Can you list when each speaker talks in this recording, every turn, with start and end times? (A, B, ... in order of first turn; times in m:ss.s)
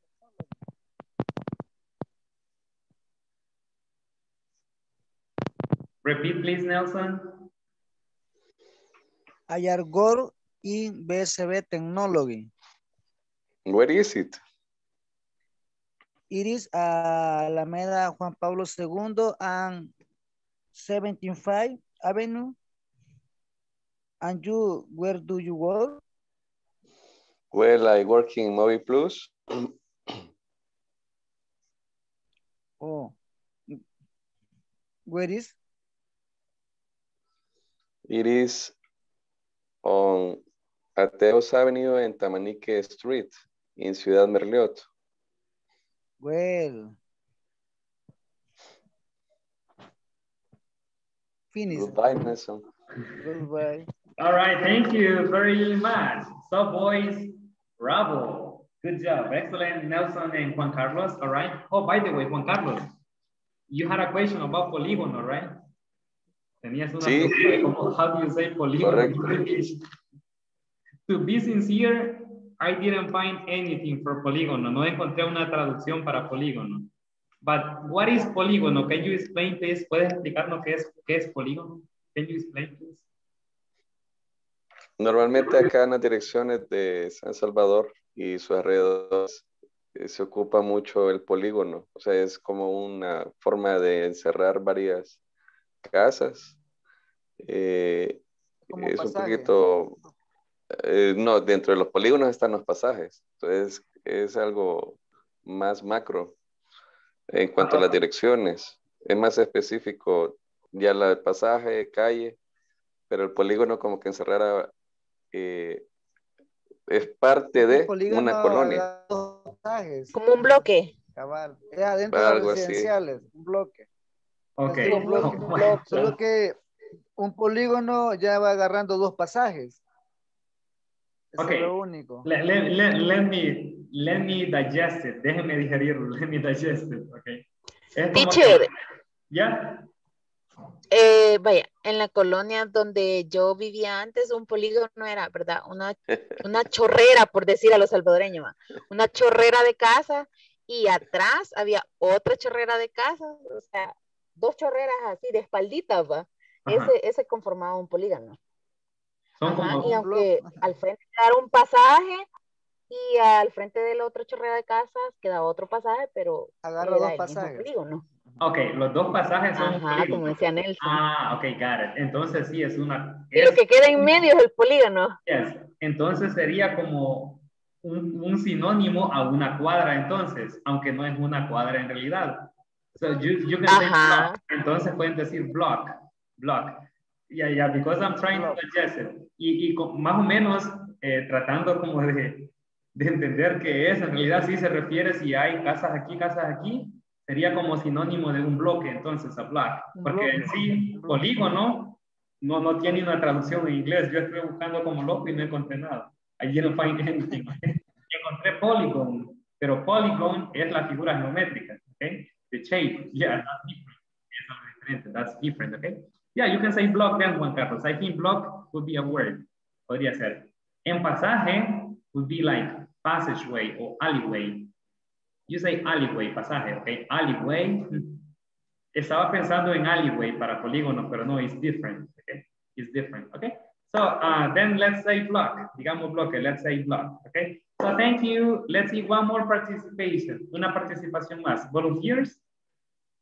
0:06.0-0:07.5 A
0:09.5-0:12.5 B
0:13.6-0:14.4 C
0:16.3-0:19.9 B
0:20.7-0:22.6 B
0:24.2-0:26.0 B
0:27.5-0:30.2 C
0:32.8-0:33.1 B
0:35.1-0:35.5 B
0:38.1-0:38.7 C
0:39.8-0:40.4 C
0:41.0-0:44.8 C
0:46.2-0:46.9 B
0:51.5-0:52.2 B
0:51.7-0:52.7 C
0:53.2-0:53.9 B
0:54.2-1:02.9 A
1:03.7-1:05.5 A
1:06.6-1:09.8 A
1:07.0-1:07.5 C
1:08.8-1:09.5 C
1:11.1-1:16.9 A
1:17.4-1:23.0 A
1:25.0-1:29.4 C
1:29.9-1:35.2 C
1:35.8-1:36.6 C
1:37.4-1:38.2 C
1:38.7-1:40.1 B
1:38.7-1:39.9 C
1:40.7-1:46.3 C
1:47.3-1:52.4 C
1:53.1-1:54.7 C
1:55.3-1:55.8 C
1:56.9-1:58.9 C
1:57.6-2:00.1 B
2:00.1-2:00.9 D
2:01.2-2:03.8 B
2:02.1-2:02.9 C
2:04.6-2:06.1 A
2:04.6-2:06.6 B
2:04.8-2:05.8 D
2:07.2-2:09.8 B
2:11.3-2:12.2 B
2:11.4-2:11.7 A
2:12.2-2:17.4 A
2:17.9-2:18.7 A
2:18.1-2:18.7 D
2:19.3-2:19.9 A
2:20.9-2:38.4 D
2:36.6-2:36.9 A
2:39.4-2:39.9 A
2:39.4-2:42.3 D
2:39.8-2:40.6 B
2:42.9-2:48.0 D
2:46.6-2:47.7 B
2:48.4-2:50.2 A
2:49.6-2:51.0 D
2:50.8-2:54.0 A
2:53.3-2:55.2 D
2:55.2-3:44.7 A
3:03.7-3:04.4 D
3:20.0-3:21.3 B
3:45.5-3:48.2 A
3:48.9-4:02.4 A